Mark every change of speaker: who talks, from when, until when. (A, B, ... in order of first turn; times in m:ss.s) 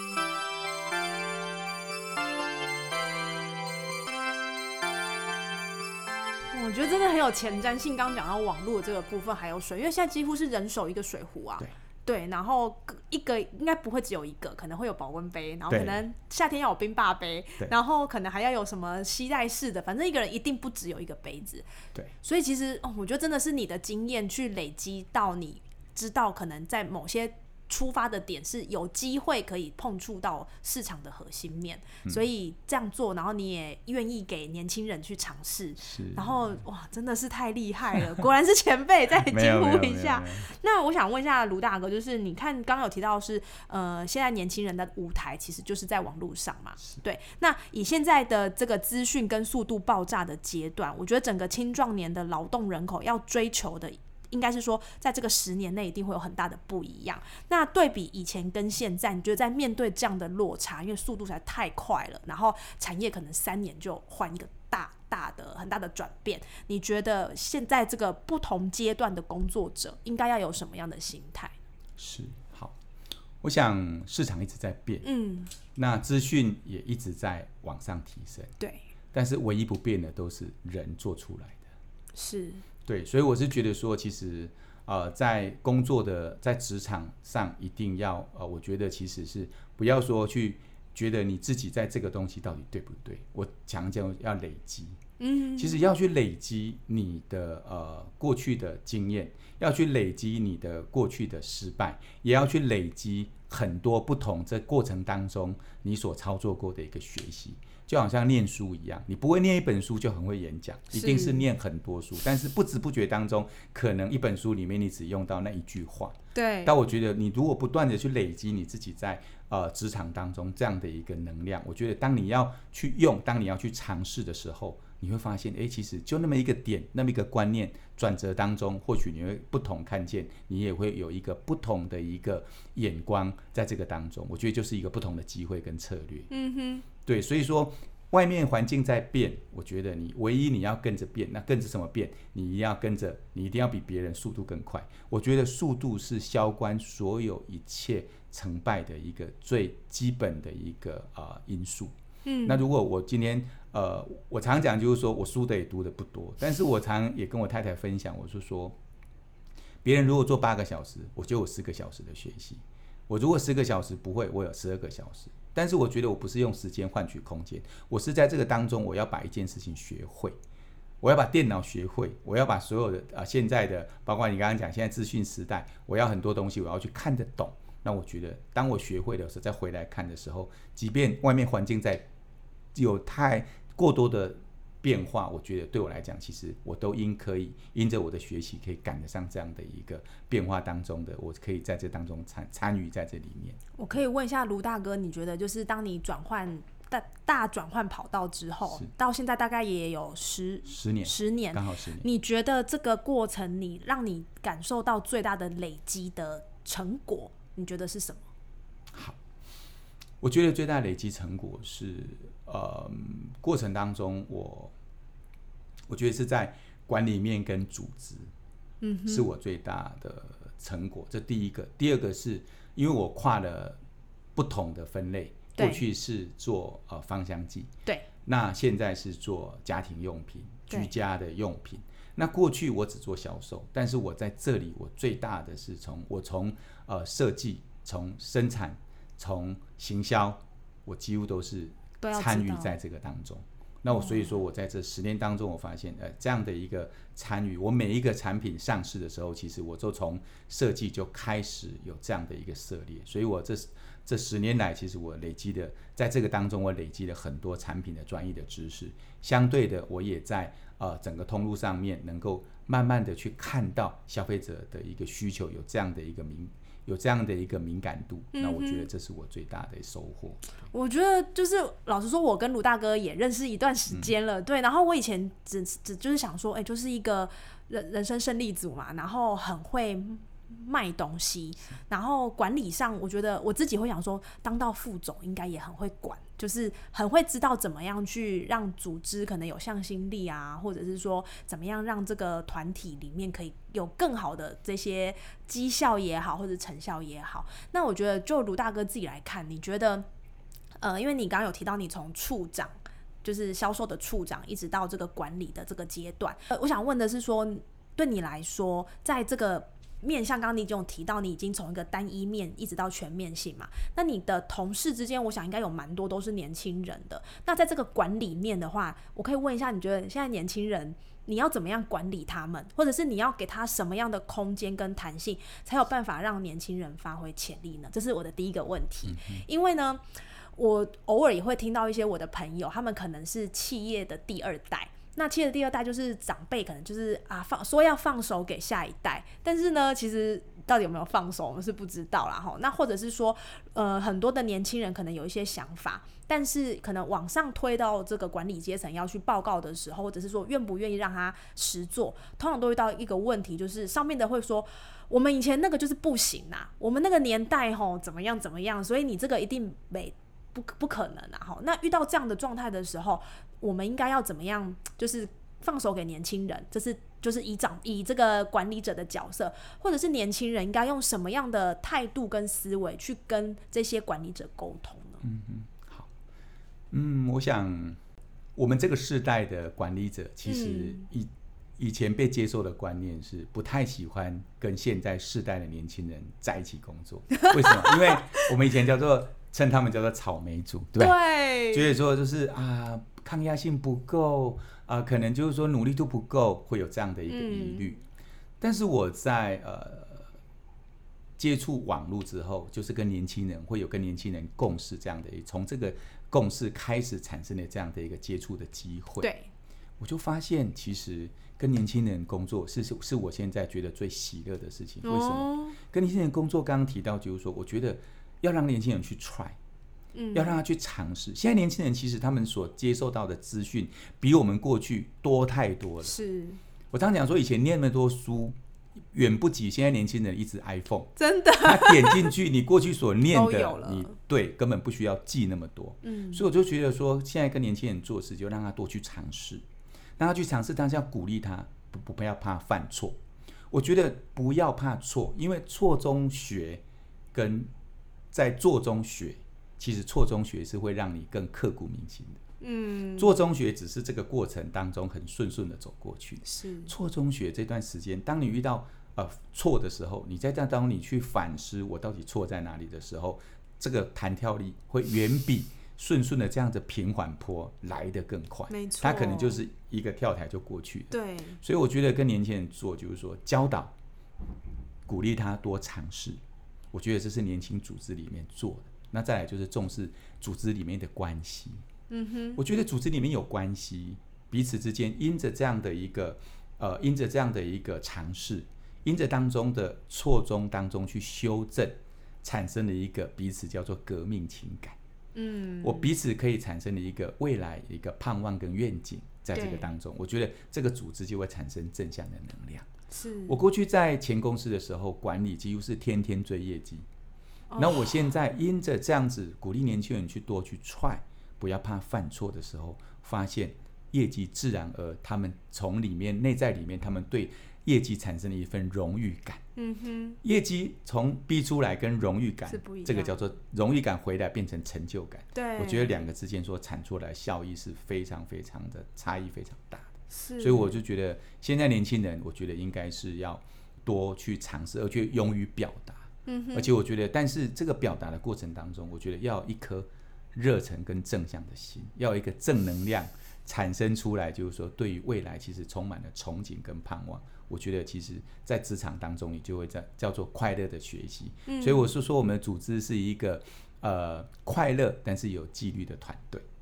0:06.5-0:21.6 A
0:15.7-0:16.0 B
0:22.2-1:11.5 A
0:35.8-0:36.3 B
0:39.3-0:40.5 B
1:12.0-1:12.7 B
1:13.4-1:15.0 B
1:15.0-1:15.5 A
1:15.6-1:18.5 B
1:19.1-1:21.6 B
1:22.1-1:22.6 A
1:22.8-1:35.0 B
1:35.2-1:35.8 A
1:35.6-2:16.3 B
1:50.9-1:51.4 A
1:56.3-1:56.7 A
2:16.3-2:16.8 A
2:17.0-2:38.8 B
2:32.2-2:32.6 A
2:39.8-2:50.4 B
2:51.0-3:02.0 B
3:02.7-3:13.6 B
3:13.8-3:28.3 A
3:20.7-3:22.0 B
3:28.9-3:29.2 B
3:30.2-3:34.7 B
3:35.9-3:38.3 B
3:38.8-3:39.3 A
3:39.1-3:43.8 B
3:44.4-3:47.7 B
3:45.5-3:45.8 A
3:48.2-4:30.4 B
4:02.0-4:02.7 A
4:03.9-4:04.3 A
4:28.3-4:28.9 A
4:30.7-5:00.1 A
5:00.8-6:15.2 A
5:29.1-5:29.4 B
6:15.2-6:16.1 B
6:16.9-6:18.0 B
6:18.6-6:38.0 B
6:20.4-6:21.0 A
6:27.4-6:28.0 A
6:31.0-6:31.9 A
6:37.3-6:38.0 A
6:38.6-6:40.3 B
6:41.4-6:49.3 B
6:49.2-6:49.5 A
6:50.0-6:59.6 B
6:55.0-6:55.8 A
7:00.1-7:00.6 A
7:00.3-7:06.2 B
7:06.0-7:06.6 A
7:06.9-7:08.6 B
7:09.1-7:19.6 B
7:11.2-7:12.3 A
7:13.3-7:14.1 A
7:16.0-7:16.4 A
7:20.2-7:23.2 B
7:23.7-7:26.8 B
7:27.3-7:27.7 B
7:28.3-7:32.4 B
7:32.6-7:33.3 A
7:33.2-7:53.9 B
7:36.4-7:36.9 A
7:48.7-7:49.6 A
7:51.1-7:51.6 A
7:55.0-7:56.4 B
7:56.9-8:01.8 B
8:02.1-8:02.6 A
8:02.6-8:15.0 B
8:15.3-8:16.1 A
8:15.8-8:22.9 B
8:19.5-8:19.9 A
8:23.1-8:23.6 A
8:23.5-8:27.0 B
8:27.7-8:28.2 A
8:27.8-8:39.6 B
8:39.8-8:40.4 A
8:40.4-9:16.6 B
8:42.7-8:43.4 A
8:45.5-8:46.1 A
8:50.3-8:51.0 A
8:56.4-8:56.9 A
9:11.6-9:12.1 A